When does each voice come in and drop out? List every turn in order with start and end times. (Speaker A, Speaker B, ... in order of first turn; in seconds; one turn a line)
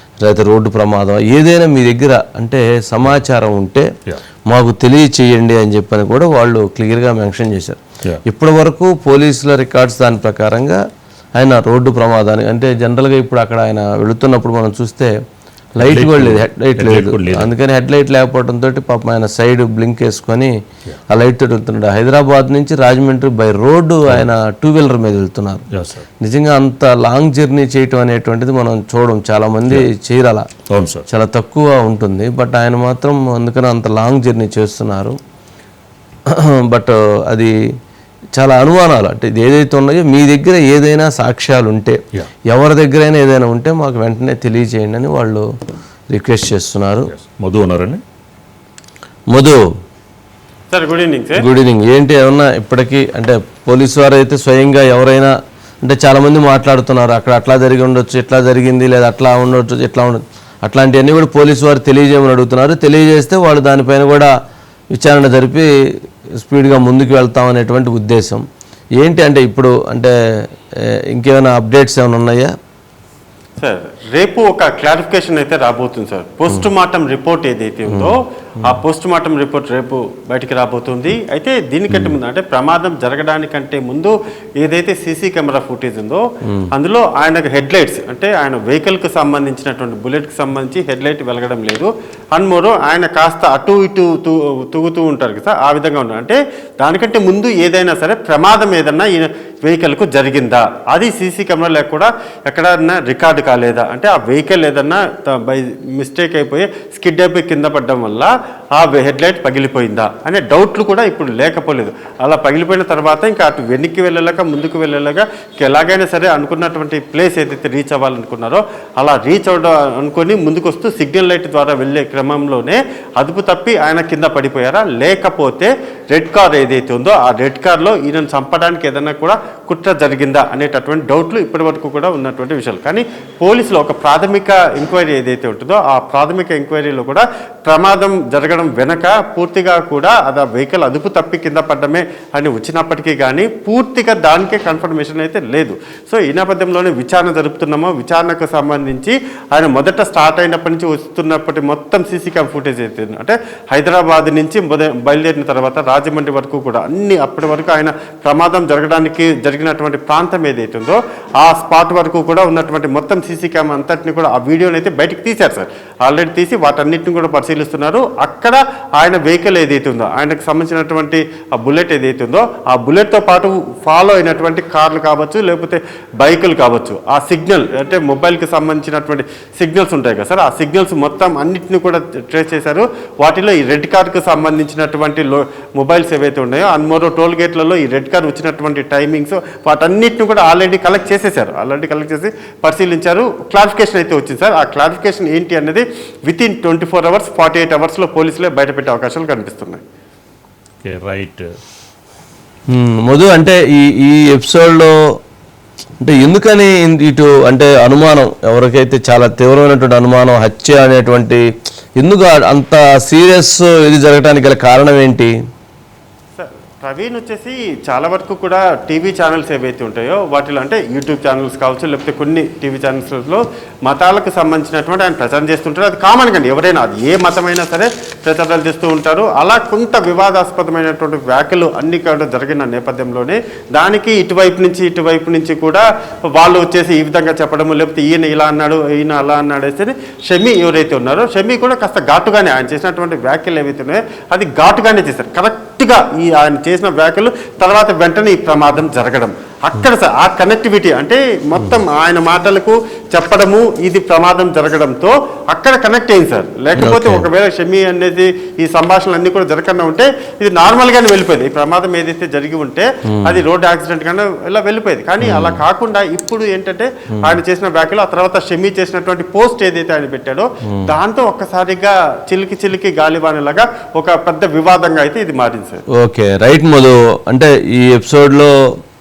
Speaker A: 0.2-3.9
Speaker A: 4.5-10.8
Speaker A: 11.4-15.1
Speaker A: 15.8-20.5
Speaker B: 15.8-17.5
Speaker A: 21.1-25.6
Speaker B: 25.7-26.1
Speaker A: 26.2-30.4
Speaker B: 30.7-31.1
Speaker A: 31.1-35.2
Speaker A: 36.4-37.5
Speaker A: 38.4-42.0
Speaker A: 42.5-45.4
Speaker A: 46.1-47.1
Speaker B: 47.1-48.0
Speaker A: 49.3-49.6
Speaker C: 50.7-51.4
Speaker A: 51.4-64.3
Speaker A: 65.0-65.7
Speaker A: 66.4-68.4
Speaker A: 69.0-70.1
Speaker A: 71.1-72.5
Speaker C: 73.6-199.8
Speaker A: 81.9-82.2
Speaker B: 200.8-201.6
Speaker A: 202.7-204.9
Speaker A: 206.0-211.4
Speaker A: 212.0-215.3
Speaker C: 216.4-275.8
Speaker A: 256.8-257.2
Speaker A: 263.1-263.4
Speaker A: 265.2-265.6
Speaker A: 276.0-278.5